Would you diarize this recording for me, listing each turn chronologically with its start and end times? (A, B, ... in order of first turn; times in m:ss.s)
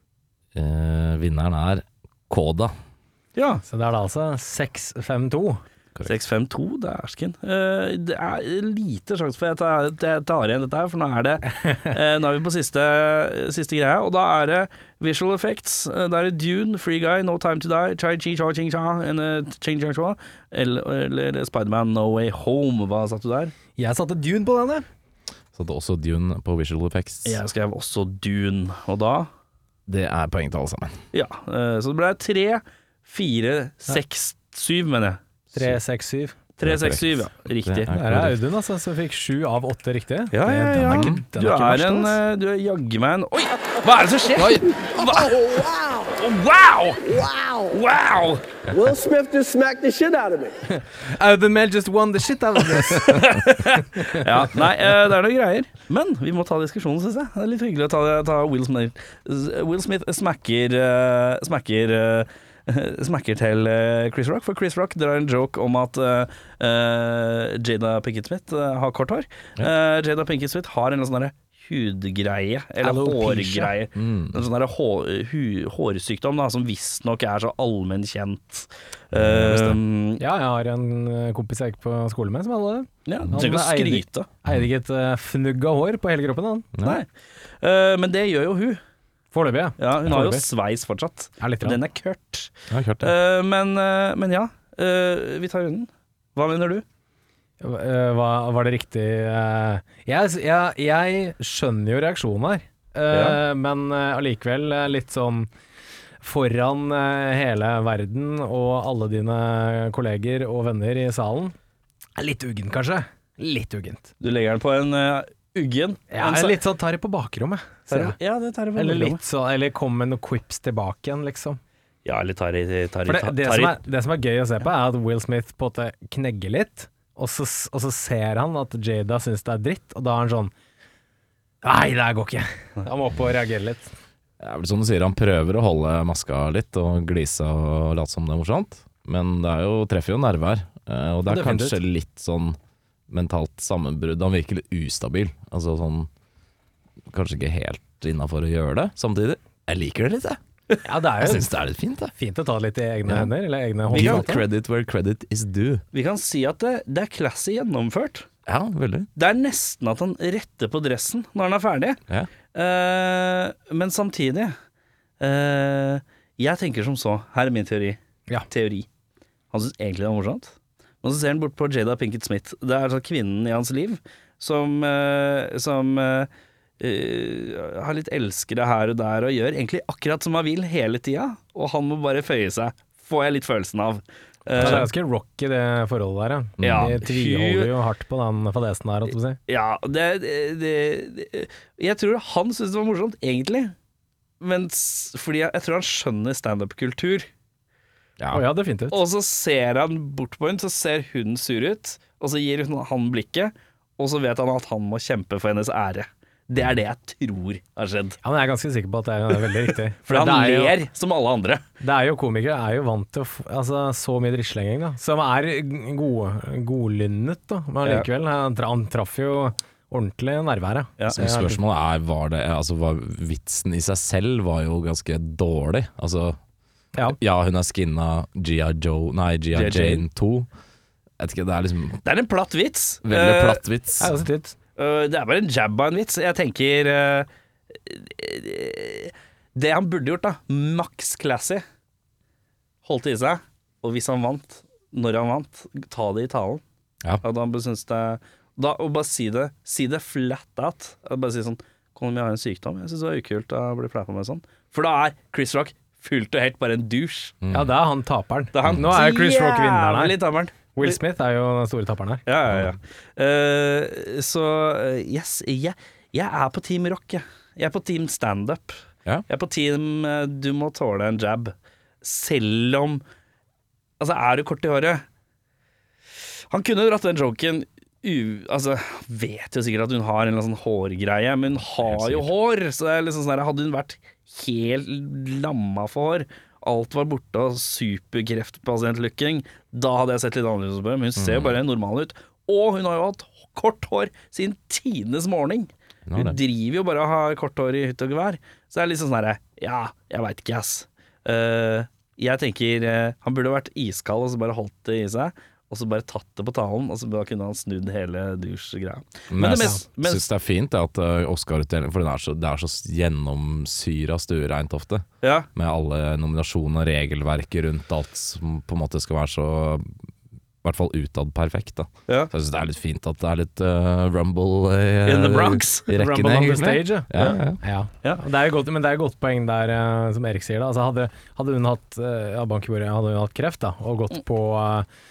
0:00.5-0:02.7 A
0:03.3-0:03.6 B
0:03.7-0:05.6 C
0:06.0-0:23.5 B
0:23.8-0:24.8 C
0:25.5-0:27.4 A
0:27.2-0:29.3 B
0:29.9-0:31.0 A
0:31.1-0:35.2 B
0:35.5-0:36.4 C
0:36.6-0:37.9 B
0:36.6-0:38.4 A
0:37.9-0:42.2 C
0:40.3-0:48.6 B
0:40.7-0:41.2 A
0:45.0-0:46.1 D
0:47.1-0:47.7 D
0:48.7-0:50.6 D
0:50.7-0:54.2 C
0:52.6-1:20.2 B
1:12.8-1:13.7 C
1:13.9-1:14.4 A
1:19.1-1:19.8 A
1:20.2-1:26.7 C
1:23.0-1:24.3 B
1:26.7-1:27.0 A
1:26.8-1:27.1 B
1:27.6-1:28.8 B
1:29.3-1:30.5 C
1:29.8-1:36.8 B
1:31.4-1:31.8 C
1:32.7-1:33.1 A
1:37.6-1:45.5 C
1:43.1-1:43.4 B
1:46.2-1:51.5 C
1:52.2-1:54.1 C
1:54.2-1:56.6 B
1:56.1-1:58.2 C
1:57.9-1:59.2 B
1:58.8-2:01.6 C
2:02.0-2:03.8 B
2:03.0-2:10.5 C
2:11.6-2:13.9 C
2:14.4-2:22.6 A
2:21.2-2:21.8 C
2:23.1-2:26.1 A
2:27.1-2:30.4 A
2:30.8-2:31.5 C
2:31.2-2:32.1 A
2:32.2-2:34.4 C
2:33.0-2:33.3 A
2:33.9-2:35.8 A
2:33.9-2:34.3 B
2:35.9-2:38.2 B
2:38.5-2:39.1 A
2:39.2-2:42.0 B
2:42.5-2:44.5 B
2:45.2-2:48.0 B
2:48.5-2:48.9 B
2:49.5-2:56.3 B
2:56.8-3:04.9 B
3:04.5-3:09.4 C
3:06.6-3:07.0 A
3:06.6-3:07.7 B
3:09.5-3:13.7 B
3:14.4-3:17.2 B
3:18.2-3:18.4 A
3:18.3-3:19.0 C
3:18.9-3:28.2 B
3:28.2-3:30.8 C
3:29.3-3:31.6 B
3:31.8-3:41.6 C
3:41.0-3:41.3 B
3:41.1-3:46.4 A
3:47.0-3:50.5 A
3:49.5-3:50.0 B
3:51.2-3:52.0 A
3:52.0-3:53.6 B
3:53.0-3:54.1 A
3:54.0-3:54.6 C
3:54.8-4:01.6 B
4:02.8-4:06.6 B
4:07.2-4:17.3 B
4:17.4-4:17.7 A
4:17.5-4:20.2 C
4:18.5-4:21.0 B
4:18.7-4:18.9 A
4:20.7-4:22.2 C
4:22.2-4:33.0 B
4:34.0-4:35.0 B
4:36.5-5:10.2 B
4:41.8-4:42.3 A
4:51.2-4:51.6 A
4:56.1-4:56.4 A
5:09.3-5:19.8 A
5:09.4-5:09.8 C
5:15.2-5:15.5 B
5:20.6-5:27.6 A
5:25.0-5:26.0 B
5:26.0-5:34.9 C
5:27.1-5:27.4 B